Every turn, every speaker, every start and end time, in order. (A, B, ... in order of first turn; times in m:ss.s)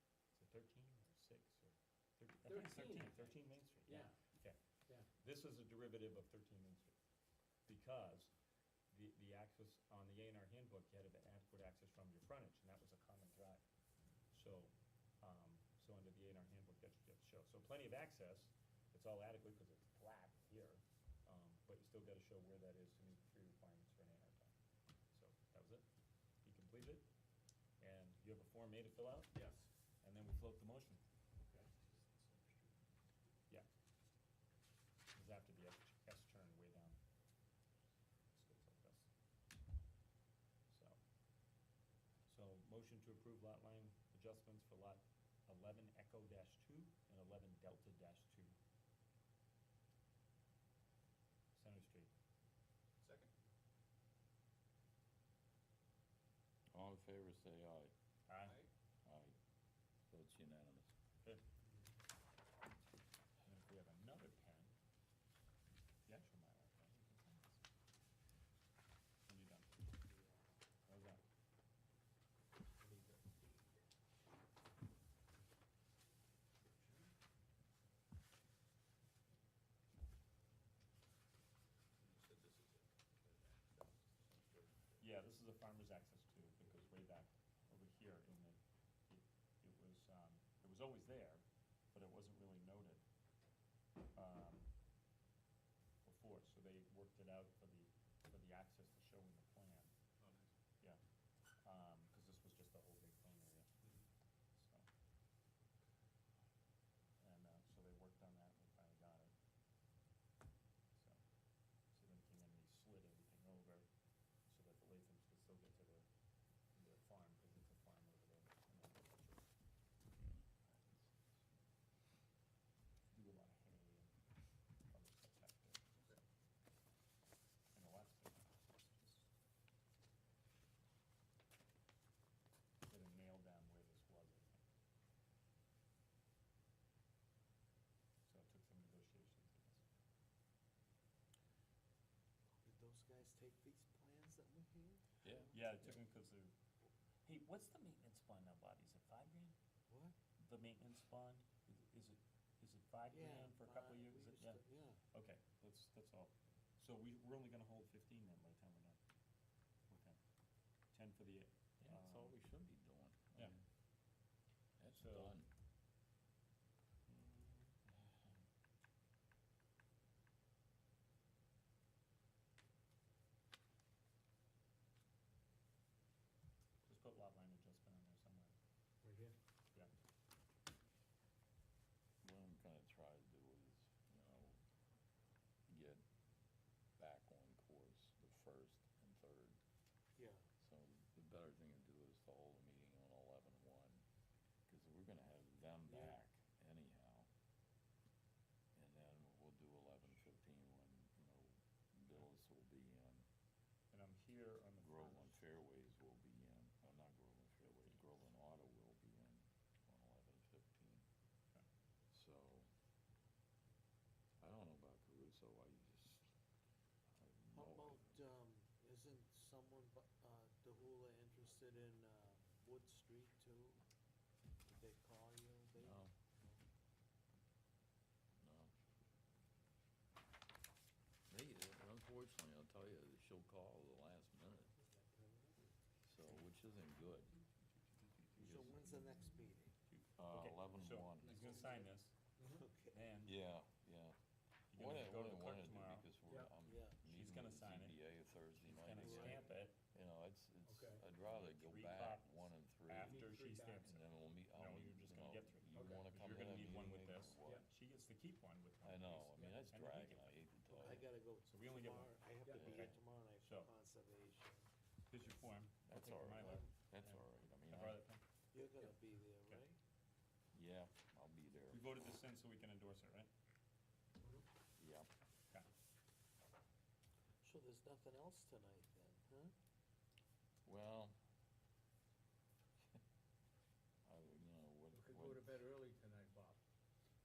0:00.3-0:07.0 A
0:02.4-0:04.3 B
0:07.7-0:08.3 A
0:08.9-0:13.6 A
0:14.3-0:24.5 A
0:25.1-0:25.8 A
0:26.4-0:27.1 A
0:27.8-0:29.5 A
0:29.4-0:29.7 B
0:30.0-0:31.0 A
0:31.9-0:32.7 C
0:35.1-0:37.0 A
0:38.3-0:39.1 A
0:40.7-0:41.0 A
0:42.3-0:48.6 A
0:51.6-0:52.1 A
0:53.0-0:53.3 C
0:56.7-0:57.9 D
0:58.3-0:58.6 A
0:58.4-0:58.7 C
0:59.0-0:59.4 D
1:00.1-1:00.9 D
1:03.4-1:04.7 A
1:06.1-1:07.6 A
1:09.3-1:09.8 A
1:10.9-1:11.2 A
1:12.8-1:13.7 B
1:22.0-1:25.0 C
1:25.0-1:28.6 A
1:29.1-1:33.0 A
1:34.2-1:34.7 A
1:36.0-1:39.9 A
1:40.2-1:40.5 C
1:41.6-1:43.7 A
1:44.6-1:44.9 A
1:47.2-1:49.3 A
1:51.0-1:51.2 A
1:51.9-1:53.9 A
1:54.5-1:56.1 A
1:56.7-1:59.5 A
2:03.1-2:04.1 A
2:04.9-2:06.2 A
2:07.7-2:09.3 A
2:12.9-2:14.6 A
2:18.3-2:19.8 A
2:22.6-2:25.0 E
2:25.2-2:26.0 D
2:25.5-2:26.5 A
2:27.2-2:29.6 A
2:29.9-2:30.2 E
2:30.4-2:34.6 A
2:33.1-2:35.0 E
2:35.1-2:39.0 A
2:39.9-2:40.2 A
2:40.9-2:42.4 A
2:41.8-2:43.6 D
2:44.8-2:45.5 D
2:45.0-2:45.4 A
2:47.1-2:47.6 A
2:56.9-2:58.5 A
2:59.0-2:59.3 B
3:02.2-3:04.6 D
3:05.7-3:06.0 D
3:07.0-3:09.6 D
3:10.2-3:10.5 E
3:10.6-3:14.0 D
3:14.7-3:17.3 D
3:18.8-3:23.2 D
3:23.9-3:25.4 A
3:24.8-3:31.0 D
3:32.1-3:32.7 D
3:34.4-3:36.3 D
3:37.1-3:38.1 D
3:37.5-3:43.8 E
3:44.6-3:46.6 E
3:45.8-3:46.1 D
3:48.4-3:48.7 D
3:51.3-3:54.7 D
3:54.9-3:55.6 B
3:56.0-3:57.4 D
3:58.4-3:59.7 E
3:58.4-3:58.9 D
3:59.9-4:02.2 A
4:00.2-4:01.7 D
4:02.5-4:03.0 E
4:02.9-4:03.4 A
4:03.2-4:04.2 D
4:04.7-4:06.1 A
4:04.7-4:17.7 D
4:06.6-4:07.0 E
4:07.0-4:08.0 A
4:08.6-4:09.8 A
4:09.0-4:09.4 E
4:10.6-4:11.0 B
4:11.2-4:20.3 A
4:13.0-4:13.8 B
4:15.7-4:16.1 B
4:18.8-4:21.1 D
4:20.8-4:24.7 E
4:21.5-4:23.7 A
4:22.4-4:22.7 B
4:22.5-4:23.0 D
4:25.1-4:28.2 A
4:25.9-4:28.0 D
4:26.3-4:26.7 E
4:28.5-4:29.8 E
4:30.5-4:31.9 D
4:31.7-4:33.3 A
4:34.8-4:35.1 D
4:37.4-4:39.5 E
4:40.6-4:41.2 D
4:44.0-4:45.7 D
4:44.9-4:46.6 B